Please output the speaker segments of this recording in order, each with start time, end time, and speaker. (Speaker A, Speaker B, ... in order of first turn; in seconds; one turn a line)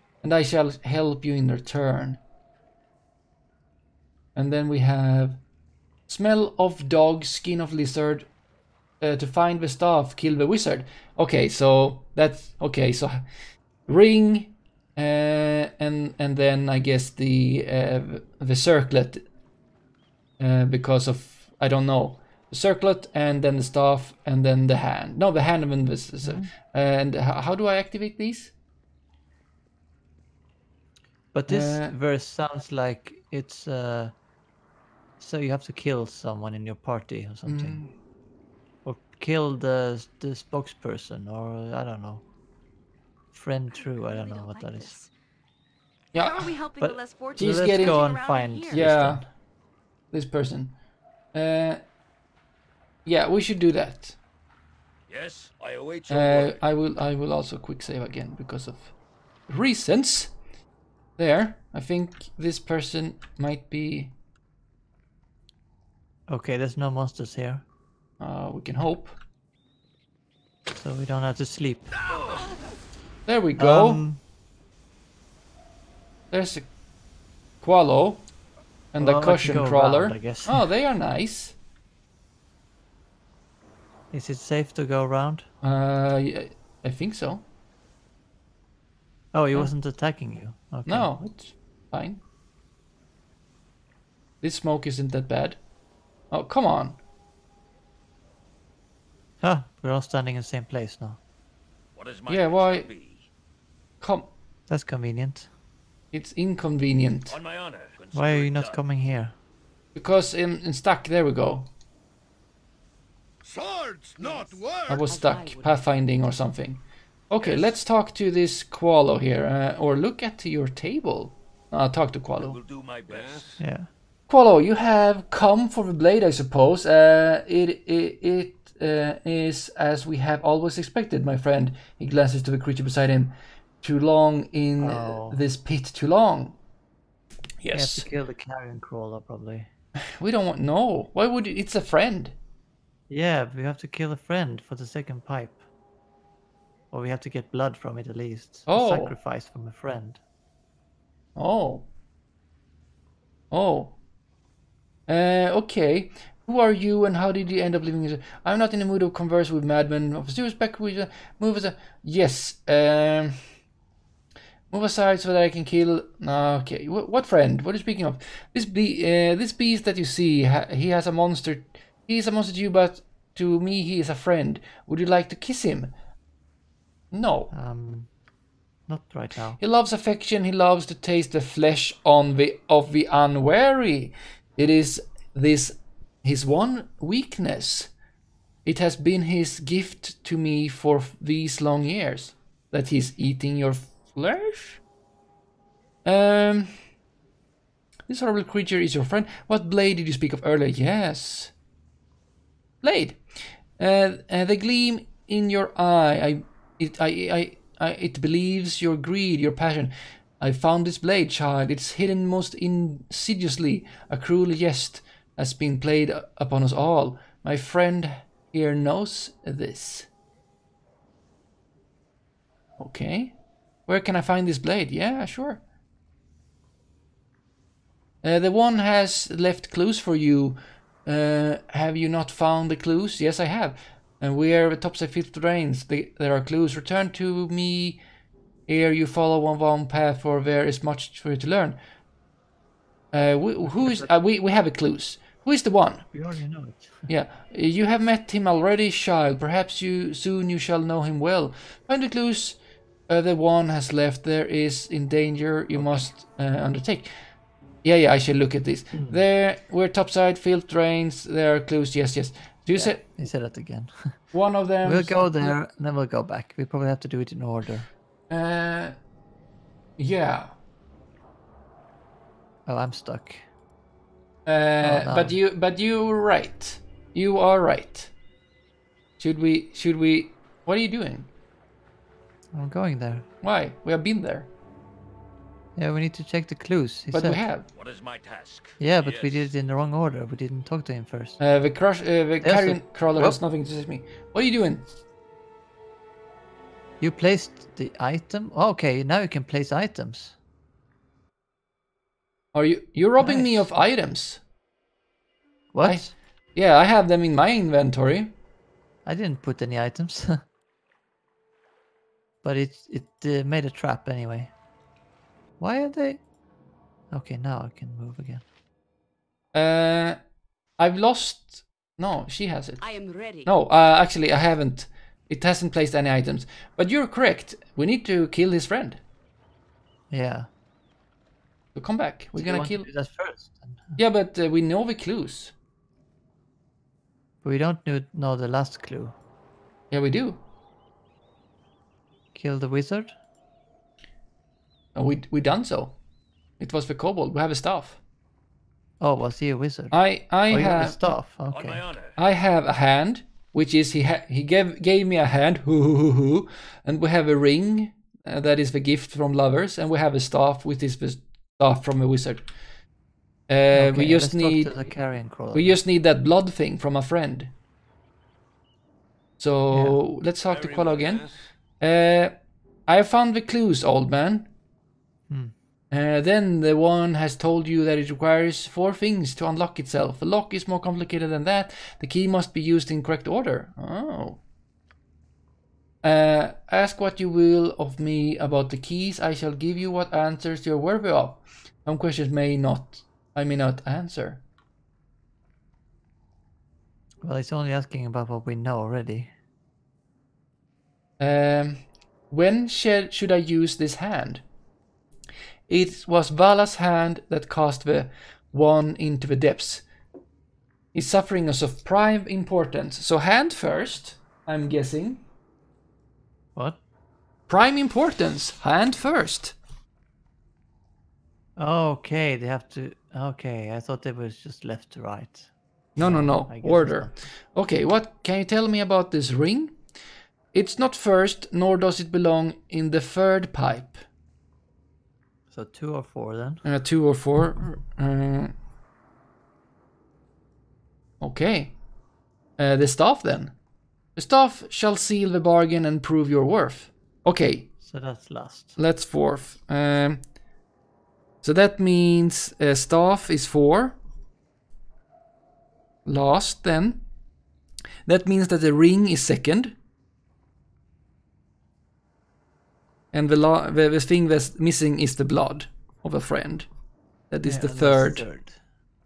Speaker A: 0.2-2.2
Speaker A: 4.3-5.4
Speaker A: 6.1-8.3
Speaker A: 9.0-13.2
Speaker A: 13.9-19.2
Speaker A: 20.4-28.5
Speaker B: 26.2-26.5
Speaker B: 31.3-34.1
Speaker A: 31.5-31.9
Speaker B: 35.2-37.8
Speaker A: 37.5-37.9
Speaker B: 38.8-42.2
Speaker B: 43.3-44.9
Speaker C: 43.7-45.1
Speaker C: 46.1-49.0
Speaker A: 46.1-46.5
Speaker B: 46.8-49.3
Speaker A: 47.4-49.2
Speaker A: 50.1-50.8
Speaker A: 51.3-51.8
Speaker A: 53.0-54.2
Speaker D: 55.1-56.6
Speaker A: 56.1-58.9
Speaker A: 59.5-60.3
Speaker A: 61.2-64.1
Speaker B: 66.3-67.6
Speaker A: 68.2-69.1
Speaker B: 70.7-71.9
Speaker E: 71.9-72.5
Speaker A: 73.3-74.0
Speaker B: 73.6-74.2
Speaker A: 76.3-76.7
Speaker A: 77.6-78.2
Speaker A: 78.9-81.5
Speaker B: 79.0-80.6
Speaker B: 84.1-85.5
Speaker A: 85.6-87.4
Speaker B: 89.3-91.1
Speaker A: 90.8-92.2
Speaker A: 94.4-95.6
Speaker A: 96.3-97.0
Speaker B: 99.4-101.2
Speaker D: 101.9-103.3
Speaker A: 102.3-102.9
Speaker A: 104.0-104.3
Speaker B: 104.7-105.5
Speaker A: 106.1-107.4
Speaker D: 107.3-108.8
Speaker B: 108.1-109.3
Speaker A: 109.9-111.7
Speaker E: 113.4-115.1
Speaker C: 114.2-114.5
Speaker A: 114.9-122.6
Speaker C: 115.1-115.8
Speaker D: 117.4-117.7
Speaker D: 122.4-123.6
Speaker B: 123.6-123.9
Speaker A: 124.3-136.6
Speaker B: 134.8-135.4
Speaker A: 137.6-138.1
Speaker B: 137.7-139.7
Speaker A: 140.2-142.3
Speaker B: 143.1-145.6
Speaker B: 146.9-150.2
Speaker A: 148.7-149.2
Speaker A: 151.3-151.8
Speaker A: 153.5-153.9
Speaker A: 155.1-163.4
Speaker A: 164.7-175.9
Speaker A: 177.1-177.5
Speaker B: 177.5-178.1
Speaker B: 178.9-179.6
Speaker A: 179.6-187.9
Speaker A: 188.6-194.8
Speaker A: 196.0-196.7
Speaker A: 198.1-201.5
Speaker A: 202.8-203.2
Speaker A: 203.8-220.1
Speaker A: 222.8-223.3
Speaker A: 223.9-225.6
Speaker A: 228.2-238.0
Speaker A: 238.7-241.8
Speaker A: 243.1-246.1
Speaker B: 243.6-244.1
Speaker B: 246.1-247.1
Speaker A: 247.1-257.1
Speaker B: 255.7-256.1
Speaker A: 257.8-263.1
Speaker B: 258.9-259.2
Speaker B: 262.7-264.2
Speaker A: 264.3-265.5
Speaker B: 264.8-267.9
Speaker A: 268.3-268.9
Speaker A: 270.0-270.5
Speaker B: 272.6-273.4
Speaker A: 274.4-278.1
Speaker B: 274.8-275.4
Speaker A: 279.2-281.3
Speaker B: 282.5-283.2
Speaker A: 283.4-284.5
Speaker B: 285.8-287.4
Speaker A: 287.1-287.7
Speaker D: 287.7-289.5
Speaker B: 288.8-291.4
Speaker A: 291.4-294.9
Speaker B: 292.4-293.4
Speaker B: 297.0-300.4
Speaker A: 302.5-304.4
Speaker B: 303.2-303.8
Speaker B: 305.7-306.1
Speaker A: 305.8-308.3
Speaker B: 309.0-310.4
Speaker B: 312.4-314.5
Speaker B: 315.6-316.2
Speaker B: 317.1-318.4
Speaker A: 319.5-320.2
Speaker A: 320.8-322.8
Speaker C: 322.8-323.5
Speaker A: 323.4-329.0
Speaker B: 330.1-330.5
Speaker A: 331.8-332.9
Speaker B: 332.3-334.0
Speaker A: 333.9-335.5
Speaker B: 337.4-339.1
Speaker A: 339.9-340.4
Speaker B: 342.3-343.1
Speaker A: 344.9-345.9
Speaker A: 346.6-348.0
Speaker B: 349.0-351.8
Speaker A: 349.9-350.9
Speaker D: 351.5-352.2
Speaker A: 352.2-362.4
Speaker A: 363.5-364.7
Speaker B: 363.7-365.8
Speaker A: 365.5-367.5
Speaker A: 369.4-371.2
Speaker B: 369.7-370.0
Speaker D: 370.5-371.5
Speaker A: 371.8-372.3
Speaker A: 372.9-374.5
Speaker B: 375.3-375.5
Speaker A: 375.9-384.4
Speaker A: 386.0-394.4
Speaker B: 397.2-399.3
Speaker A: 401.2-404.4
Speaker A: 405.7-409.8
Speaker A: 410.9-415.2
Speaker A: 417.5-419.6
Speaker B: 421.6-427.2
Speaker A: 425.9-429.8
Speaker A: 430.5-434.0
Speaker B: 435.5-436.6
Speaker A: 436.6-438.5
Speaker A: 441.2-441.7
Speaker A: 442.6-443.5
Speaker A: 444.1-447.7
Speaker B: 447.8-448.8
Speaker A: 448.8-450.2
Speaker A: 451.4-454.0
Speaker A: 456.1-457.0
Speaker A: 458.1-459.8
Speaker A: 463.1-466.7
Speaker A: 467.3-468.3
Speaker B: 467.4-468.6